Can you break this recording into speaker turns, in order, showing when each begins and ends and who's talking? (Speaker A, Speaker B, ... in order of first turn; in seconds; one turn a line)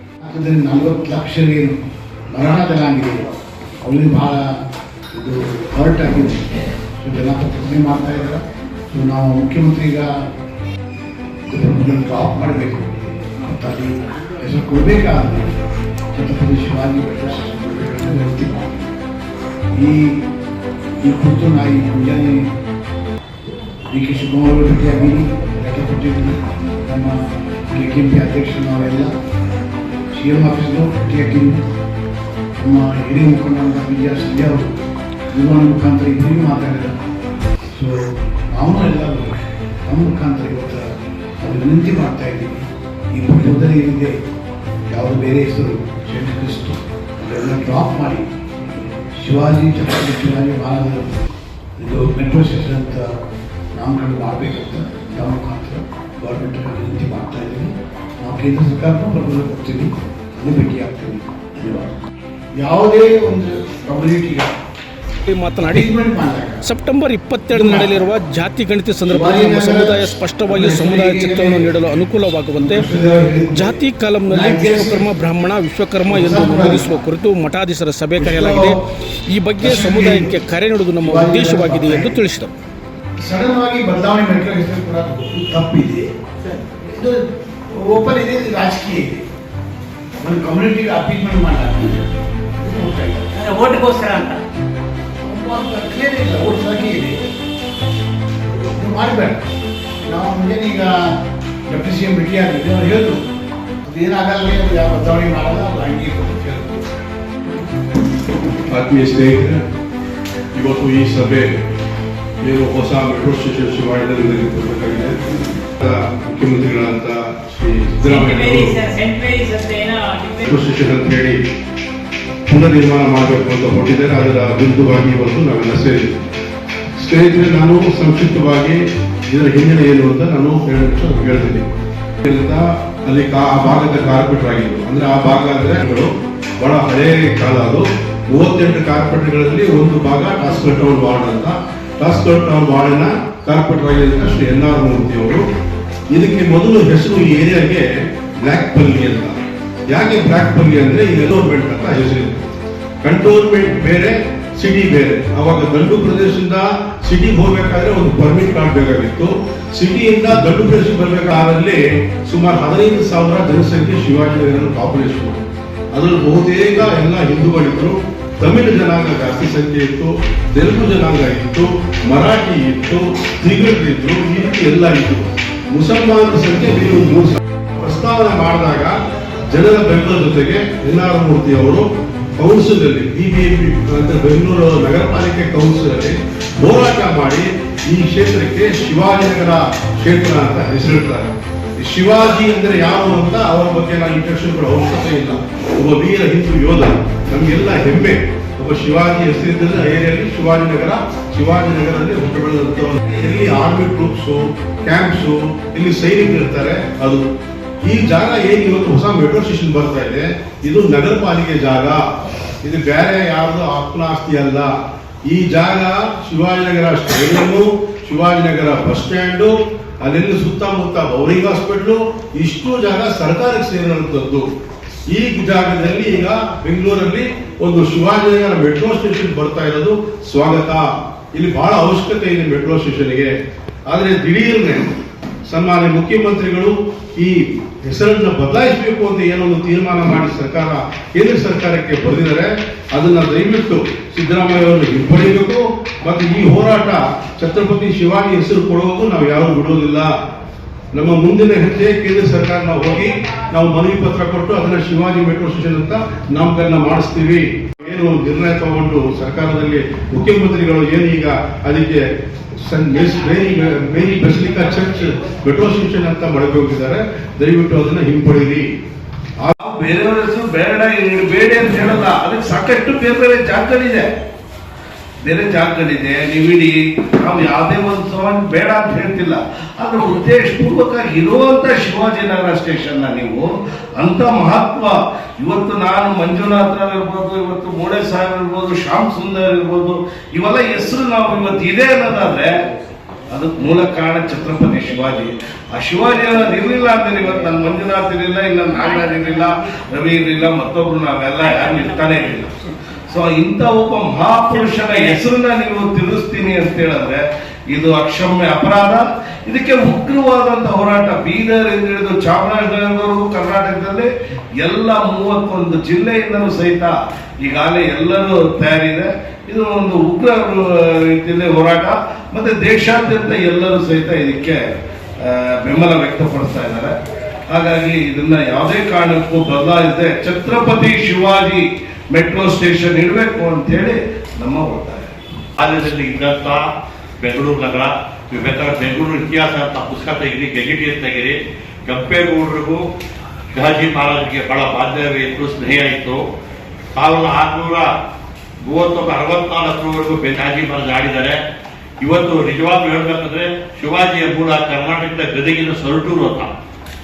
Speaker A: 0.2-1.8
Speaker A: 2.3-3.3
Speaker A: 3.8-4.6
Speaker A: 5.1-10.1
Speaker A: 11.5-15.5
Speaker A: 16.1-18.9
Speaker A: 19.7-20.2
Speaker A: 21.0-22.5
Speaker A: 23.9-27.2
Speaker A: 27.7-29.1
Speaker A: 30.1-31.6
Speaker A: 32.6-34.7
Speaker A: 35.3-36.9
Speaker A: 37.7-38.0
Speaker A: 38.5-40.9
Speaker A: 41.4-44.2
Speaker A: 44.9-51.2
Speaker A: 51.8-53.1
Speaker A: 53.7-61.9
Speaker A: 62.6-64.5
Speaker B: 65.3-65.9
Speaker A: 65.7-66.6
Speaker B: 66.6-72.8
Speaker A: 67.5-68.0
Speaker A: 69.1-71.7
Speaker A: 72.6-73.8
Speaker B: 73.5-82.5
Speaker A: 74.3-75.1
Speaker A: 76.1-77.1
Speaker A: 78.2-78.7
Speaker A: 79.6-80.3
Speaker A: 81.0-82.1
Speaker A: 83.2-87.2
Speaker A: 87.7-89.2
Speaker A: 90.2-92.0
Speaker A: 92.5-93.5
Speaker C: 93.4-94.4
Speaker A: 95.2-97.2
Speaker A: 98.5-99.4
Speaker A: 100.0-101.0
Speaker A: 101.7-103.2
Speaker A: 103.8-106.8
Speaker D: 108.7-109.6
Speaker D: 110.5-111.5
Speaker D: 112.4-115.2
Speaker D: 115.8-118.8
Speaker C: 118.0-120.5
Speaker D: 120.5-121.4
Speaker D: 122.5-126.2
Speaker D: 127.0-131.6
Speaker D: 132.2-136.1
Speaker D: 136.6-145.4
Speaker D: 146.1-149.4
Speaker D: 149.9-152.5
Speaker D: 153.0-178.9
Speaker D: 179.5-207.2
Speaker D: 207.8-212.0
Speaker D: 212.6-214.7
Speaker D: 215.3-224.4
Speaker D: 225.1-233.3
Speaker D: 233.9-234.9
Speaker D: 235.5-250.1
Speaker D: 250.9-262.0
Speaker D: 262.6-268.7
Speaker E: 269.6-274.1
Speaker E: 275.2-292.6
Speaker E: 293.3-324.7
Speaker C: 301.4-302.2
Speaker C: 304.7-305.1
Speaker E: 325.2-326.9
Speaker E: 327.5-335.1
Speaker F: 335.6-336.6
Speaker F: 337.2-342.8
Speaker F: 343.5-346.2
Speaker F: 346.9-347.9
Speaker F: 348.7-351.4
Speaker F: 352.0-356.5